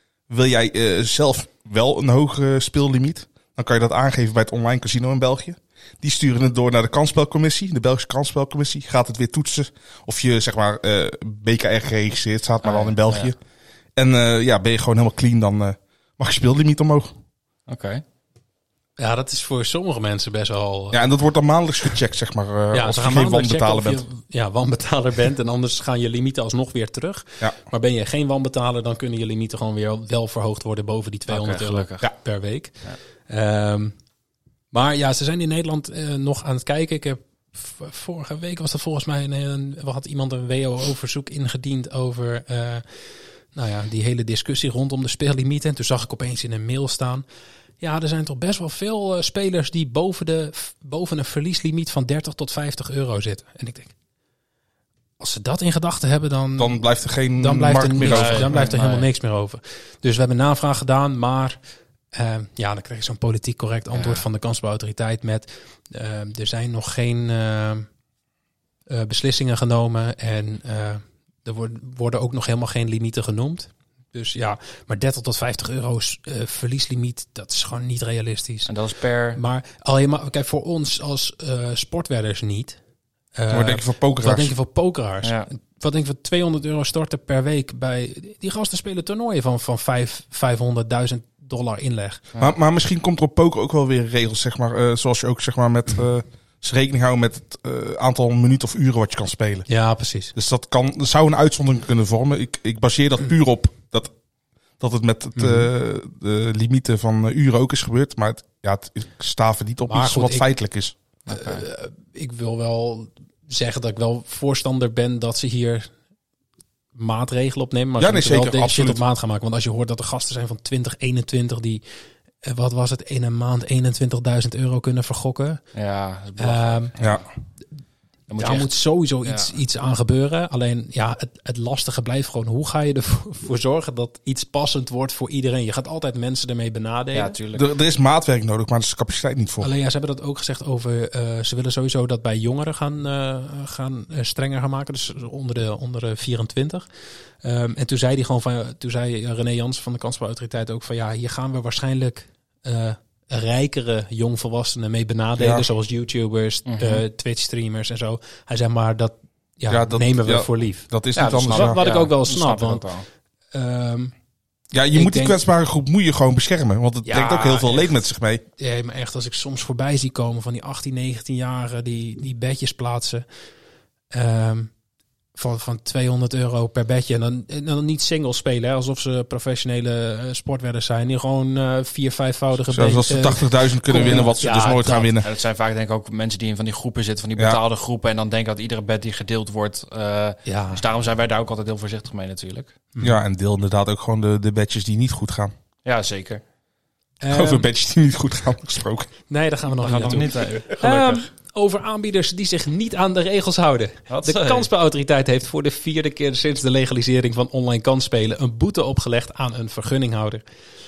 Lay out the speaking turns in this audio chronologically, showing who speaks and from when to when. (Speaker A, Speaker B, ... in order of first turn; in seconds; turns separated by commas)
Speaker A: 0.3-13.4, Speaker B: 12.6-13.3, Speaker A: 14.0-17.1, Speaker B: 17.7-18.0, Speaker C: 19.0-21.1, Speaker A: 20.9-24.0, Speaker C: 22.7-32.8, Speaker B: 31.3-32.1, Speaker C: 33.3-33.9, Speaker C: 34.7-42.9, Speaker C: 43.5-47.2, Speaker C: 47.8-53.9, Speaker C: 55.2-56.8, Speaker A: 56.6-58.7, Speaker C: 57.4-61.6, Speaker B: 58.0-59.1, Speaker C: 62.1-67.9, Speaker B: 63.9-64.2, Speaker C: 68.9-78.7, Speaker B: 78.7-79.4, Speaker C: 79.3-82.8, Speaker C: 83.4-92.2, Speaker A: 83.5-84.5, Speaker B: 85.2-85.5, Speaker A: 92.4-99.7, Speaker C: 99.7-100.3, Speaker A: 100.3-104.1, Speaker A: 104.8-111.0, Speaker C: 105.4-105.7, Speaker C: 109.9-110.5, Speaker B: 111.3-111.6, Speaker C: 111.3-115.9, Speaker C: 117.0-121.8, Speaker A: 118.0-119.0, Speaker C: 122.4-125.6, Speaker B: 125.7-127.2, Speaker C: 126.4-126.9, Speaker A: 127.0-127.2, Speaker B: 128.3-128.7, Speaker C: 128.4-137.3, Speaker B: 129.2-129.5, Speaker B: 137.1-137.7, Speaker A: 137.5-139.7, Speaker C: 139.6-146.8, Speaker C: 147.4-160.9, Speaker A: 155.4-155.7, Speaker B: 156.7-157.0, Speaker A: 159.7-161.8, Speaker B: 161.2-163.1, Speaker C: 161.5-162.9, Speaker C: 163.5-164.1, Speaker A: 164.7-168.4, Speaker C: 164.9-165.4, Speaker C: 167.1-168.0, Speaker C: 168.6-173.3, Speaker C: 174.1-174.7, Speaker C: 175.3-185.1, Speaker A: 182.7-185.3, Speaker B: 185.2-192.8, Speaker C: 190.5-190.8, Speaker A: 193.0-195.5, Speaker B: 195.8-196.4, Speaker C: 197.2-197.7, Speaker A: 197.3-199.1, Speaker C: 199.3-210.4, Speaker B: 199.8-201.3, Speaker B: 204.1-204.7